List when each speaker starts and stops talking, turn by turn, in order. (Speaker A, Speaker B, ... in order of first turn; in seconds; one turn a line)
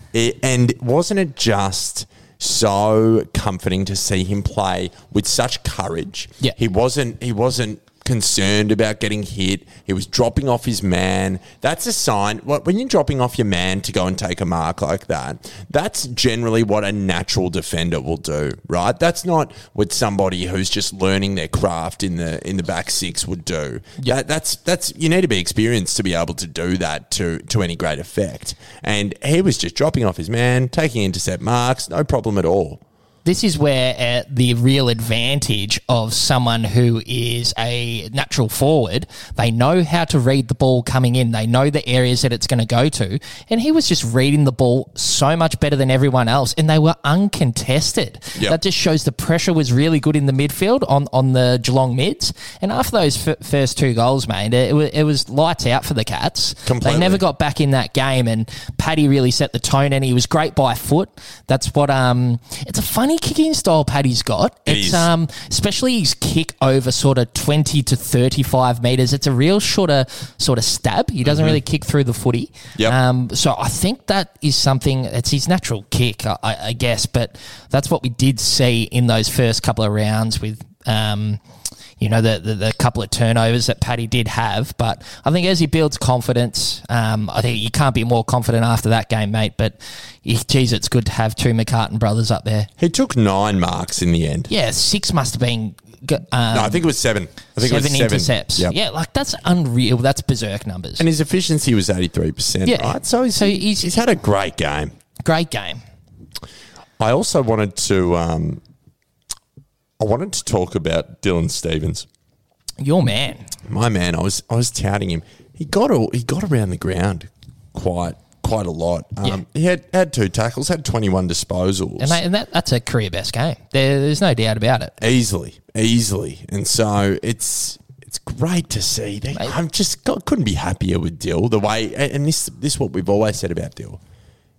Speaker A: 0.1-32.8
Speaker B: 33.2-81.4
Speaker A: 56.6-57.2
Speaker A: 64.7-65.1
Speaker A: 71.2-71.6
Speaker B: 82.0-92.7
Speaker A: 92.8-94.5
Speaker B: 94.5-96.8
Speaker A: 96.5-98.7
Speaker B: 97.6-101.0
Speaker A: 101.0-104.9
Speaker B: 102.6-103.9
Speaker B: 105.2-105.8
Speaker A: 107.0-108.6
Speaker A: 110.0-112.0
Speaker B: 112.8-113.5
Speaker A: 113.7-122.2
Speaker B: 122.0-124.9
Speaker A: 125.0-134.0